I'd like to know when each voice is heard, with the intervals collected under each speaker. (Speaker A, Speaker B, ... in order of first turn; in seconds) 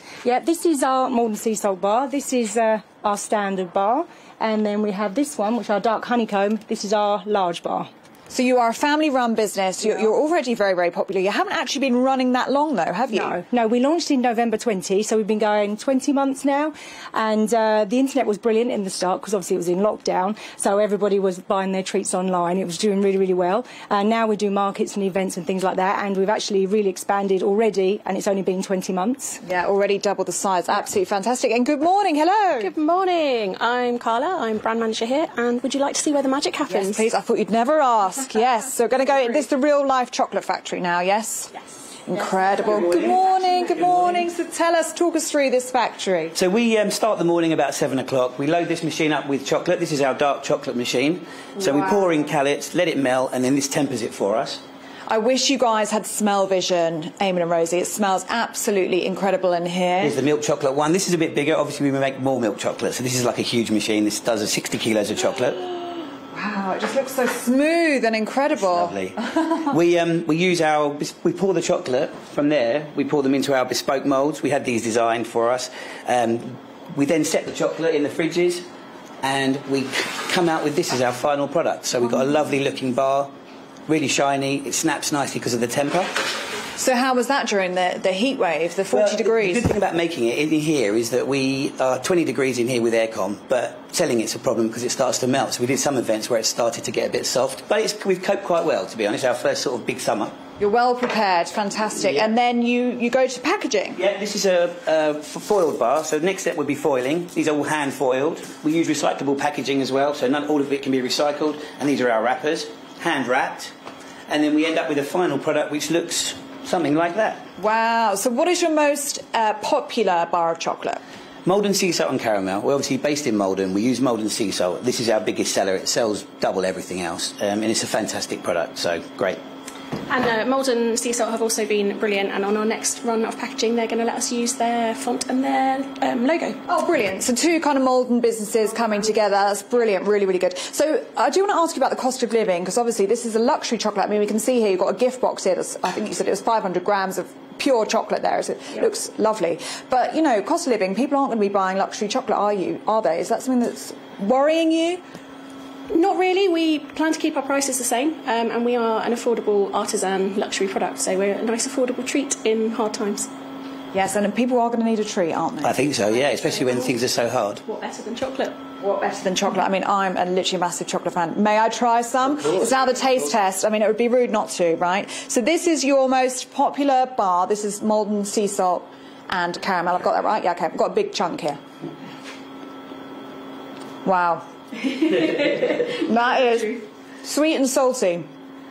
Speaker A: 0.2-7.9, 13.1-29.4
Speaker B: 8.3-13.4, 29.4-32.7, 36.7-41.5, 42.0-46.3, 55.1-60.1, 66.3-69.7, 86.8-89.7, 100.6-104.0, 117.6-121.0, 136.7-155.0, 163.9-165.8, 168.8-181.6, 184.0-188.3
Speaker C: 32.6-37.1, 130.1-136.6, 155.9-163.3, 166.1-167.0, 167.6-168.6
Speaker D: 46.4-54.6, 60.0-65.7, 68.5-69.2, 69.7-78.6, 79.2-83.3, 83.9-86.1, 88.9-100.3, 104.0-113.7, 114.3-117.4, 121.4-129.4, 165.6-167.6